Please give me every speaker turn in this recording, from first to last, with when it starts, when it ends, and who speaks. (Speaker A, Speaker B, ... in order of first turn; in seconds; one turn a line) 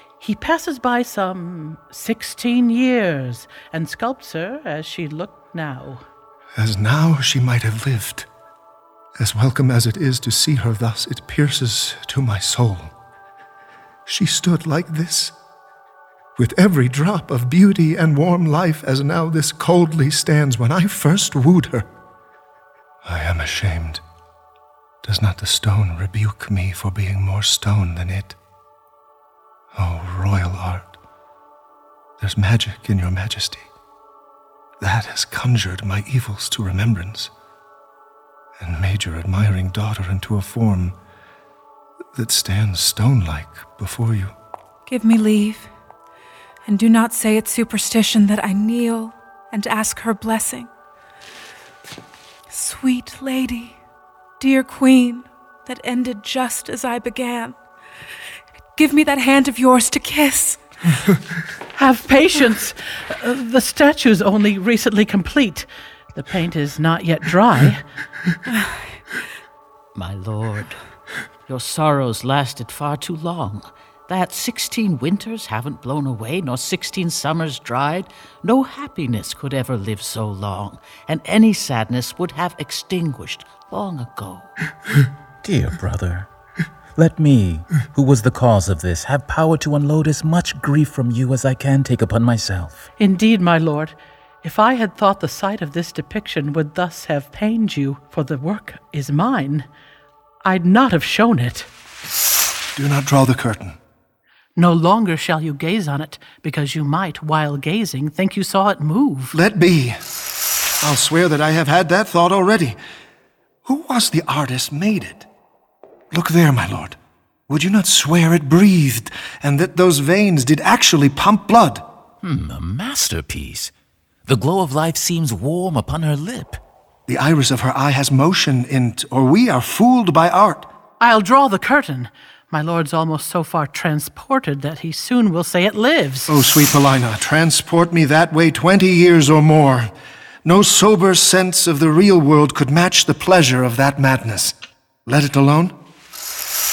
Speaker A: 0.2-6.0
Speaker B: 6.6-8.3
Speaker B: 9.2-12.9
Speaker B: 14.1-15.3
Speaker B: 16.4-21.9
Speaker B: 23.0-24.0
Speaker B: 25.0-28.4
Speaker B: 29.7-30.9
Speaker B: 32.2-33.7
Speaker B: 34.8-37.3
Speaker B: 38.6-40.9
Speaker B: 42.1-44.3
Speaker C: 44.9-45.7
Speaker C: 46.6-50.7
Speaker C: 52.5-53.8
Speaker C: 54.4-57.6
Speaker C: 58.8-60.6
Speaker A: 61.8-67.8
Speaker D: 69.9-70.8
Speaker D: 71.5-84.5
Speaker E: 87.0-89.1
Speaker E: 92.0-92.4
Speaker A: 93.0-99.7
Speaker A: 100.4-101.7
Speaker B: 102.7-103.8
Speaker A: 104.5-109.3
Speaker B: 109.3-110.0
Speaker B: 110.8-112.8
Speaker B: 113.6-115.3
Speaker B: 116.1-117.0
Speaker B: 117.5-121.8
Speaker E: 122.5-123.7
Speaker E: 125.5-126.5
Speaker B: 127.1-130.7
Speaker A: 131.0-136.3
Speaker B: 136.3-139.9
Speaker B: 140.4-144.5
Speaker B: 145.1-145.7